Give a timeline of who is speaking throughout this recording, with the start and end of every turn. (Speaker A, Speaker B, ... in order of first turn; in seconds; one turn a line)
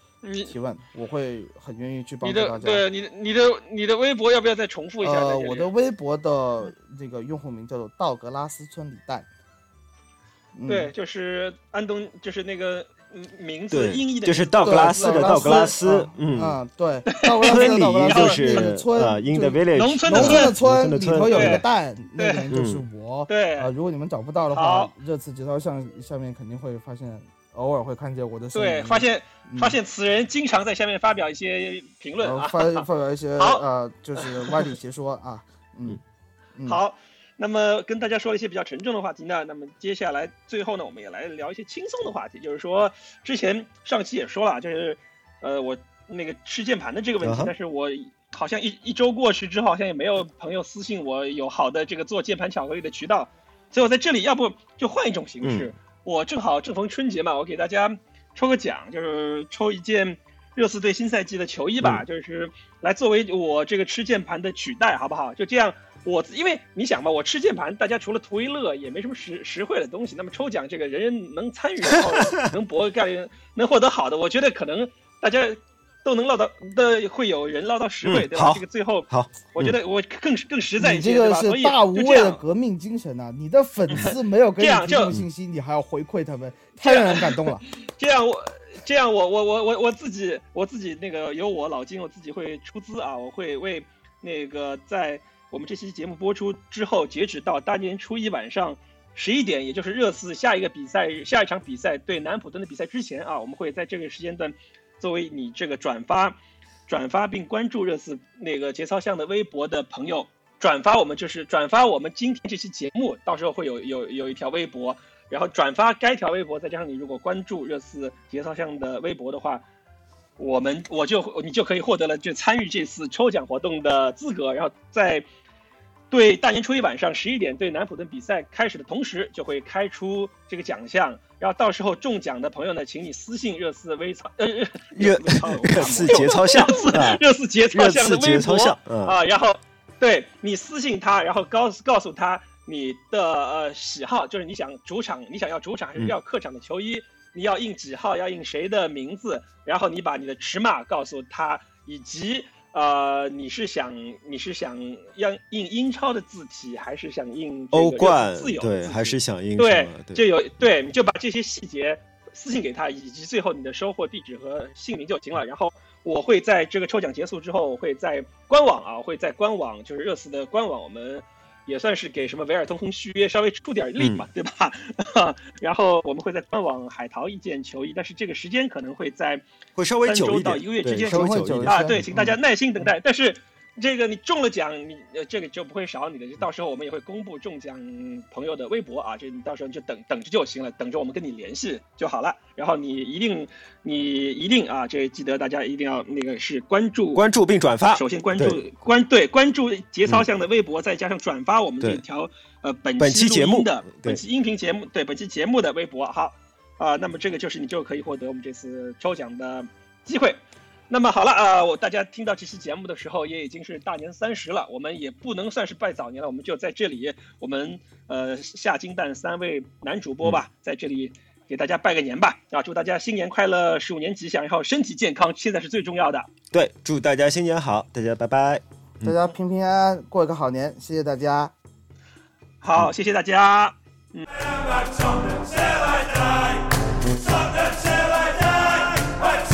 Speaker A: 0.2-0.5
Speaker B: 0.5-2.9
Speaker A: 2.2-5.7
Speaker B: 5.0-9.3
Speaker B: 10.6-10.9
Speaker A: 10.7-15.7
Speaker C: 13.7-16.6
Speaker B: 14.6-29.8
Speaker A: 17.1-18.7
Speaker C: 17.3-21.6
Speaker A: 19.7-20.6
Speaker A: 21.3-21.6
Speaker A: 22.1-22.4
Speaker C: 22.5-22.8
Speaker A: 23.3-23.7
Speaker A: 24.5-24.9
Speaker A: 28.5-33.6
Speaker B: 32.2-36.0
Speaker A: 34.2-34.7
Speaker A: 36.6-82.4
Speaker C: 47.2-47.5
Speaker C: 55.4-55.7
Speaker C: 61.8-62.0
Speaker C: 71.8-72.4
Speaker C: 78.0-79.8
Speaker B: 80.8-87.6
Speaker A: 84.0-85.1
Speaker A: 86.8-87.4
Speaker A: 88.0-119.6
Speaker A: 120.4-125.2
Speaker A: 126.1-179.4
Speaker C: 134.9-139.2
Speaker C: 157.7-160.3
Speaker C: 174.0-174.3
Speaker C: 179.8-182.3
Speaker A: 180.0-197.2
Speaker B: 180.9-182.9
Speaker C: 197.1-198.6
Speaker A: 197.9-210.4
Speaker C: 203.0-204.2
Speaker A: 210.9-226.3
Speaker C: 226.5-229.2
Speaker B: 229.0-231.5
Speaker A: 232.6-234.3
Speaker A: 234.8-236.3